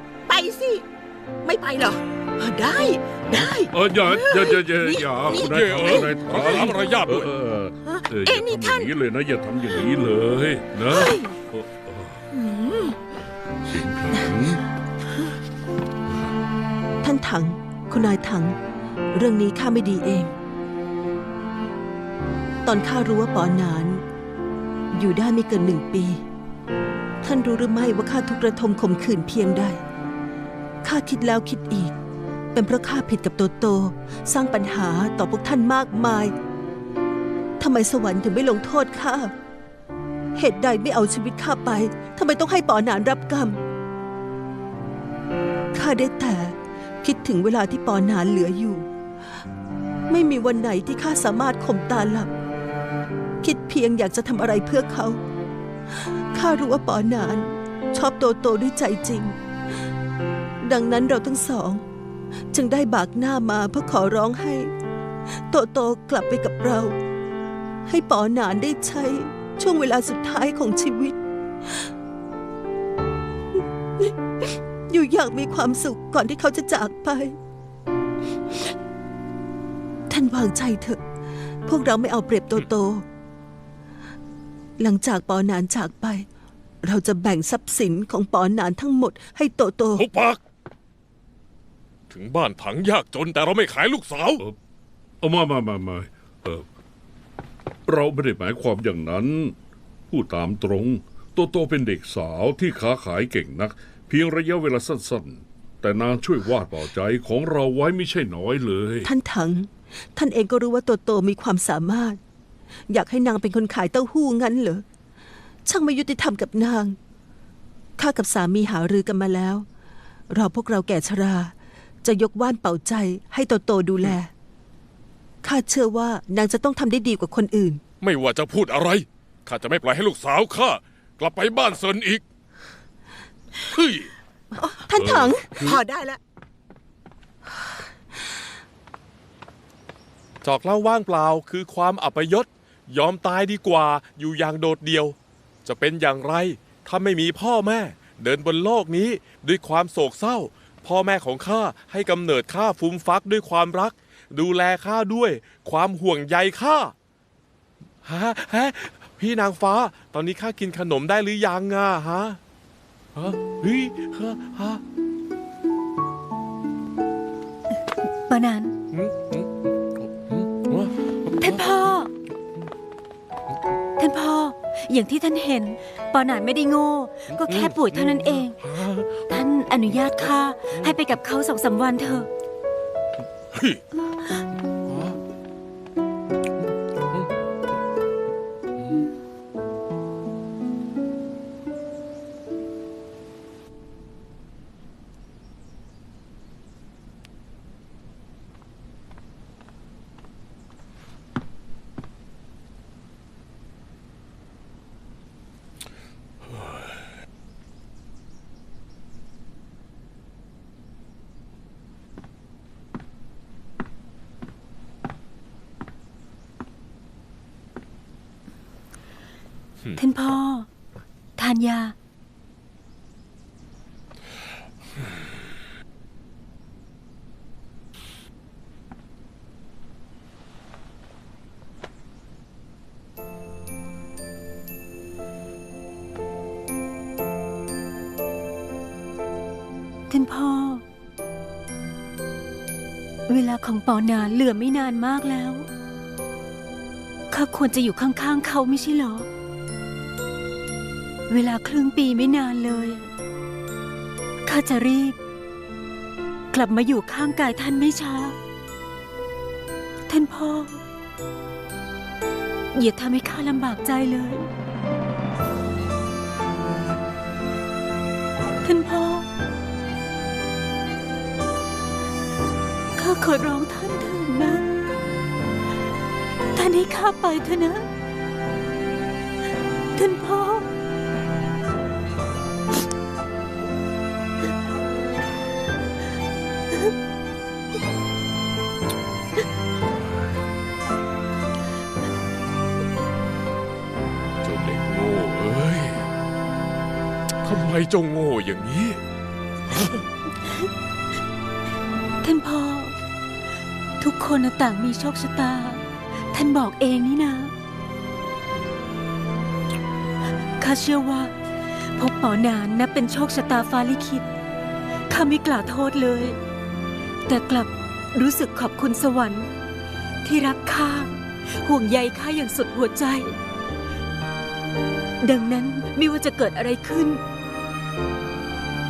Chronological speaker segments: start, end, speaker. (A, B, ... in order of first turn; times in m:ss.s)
0:00.3-0:00.8 A
0:01.4-0:05.5 A
0:03.2-0:12.3 B
0:05.4-0:07.3 C
0:08.2-0:08.9 A
0:12.3-0:13.0 A
0:13.6-0:14.6 B
0:17.0-0:18.6 D
0:19.2-0:20.3 D
0:22.6-0:24.0 D
0:24.9-0:26.2 D
0:27.2-0:29.8 D
0:30.8-0:31.9 D
0:32.5-0:36.3 D
0:37.6-0:39.3 D
0:40.4-0:43.6 D
0:45.8-0:48.9 D
0:50.1-0:52.3 D
0:53.4-0:55.2 D
0:56.1-0:59.4 D
1:00.6-1:01.8 D
1:02.5-1:04.7 D
1:05.5-1:07.0 D
1:07.9-1:11.2 D
1:14.9-1:17.4 D
1:20.1-1:21.0 D
1:21.7-1:23.0 D
1:24.8-1:26.3 D
1:26.8-1:30.0 D
1:30.0-1:30.4 C
1:32.1-1:34.4 C
1:35.2-1:36.7 B
1:37.9-1:39.6 B
1:40.1-1:49.1 B
1:49.0-1:52.2 D
1:52.9-1:54.8 D
1:55.7-1:57.0 D
1:58.0-1:59.7 D
2:00.3-2:01.5 D
2:02.0-2:04.3 D
2:05.4-2:07.8 D
2:08.0-2:12.2 C
2:13.6-2:14.1 C
2:14.6-2:15.8 D
2:15.0-2:15.8 B
2:15.6-2:16.2 A
2:20.4-2:36.9 C
2:38.0-2:42.4 C
2:43.2-2:44.8 C
2:48.3-2:48.8 E
2:48.9-2:51.6 C
2:51.4-2:52.1 E
2:54.0-2:58.6 E
2:57.3-2:59.3 C
2:59.3-3:02.3 E
3:00.0-3:00.9 C
3:03.5-3:03.8 C
3:04.9-3:05.2 C
3:40.0-3:40.7 E
3:41.4-3:42.0 E
4:00.1-4:00.8 E
4:03.3-4:05.7 E
4:07.3-4:09.3 E
4:11.3-4:13.1 E
4:14.4-4:15.2 E
4:16.5-4:18.4 E
4:20.1-4:20.8 E
4:22.7-4:24.5 E
4:28.6-4:29.3 E
4:33.0-4:34.7 E
4:36.5-4:37.9 E
4:40.0-4:40.7 E
4:54.4-4:56.1 C
4:57.4-4:59.0 C
4:59.7-5:00.0 C
5:02.2-5:03.0 E
5:04.0-5:07.5 E
5:10.6-5:11.3 E
5:11.9-5:14.3 E
5:15.1-5:16.4 E
5:17.3-5:19.5 E
5:20.2-5:23.4 E
5:25.2-5:27.2 E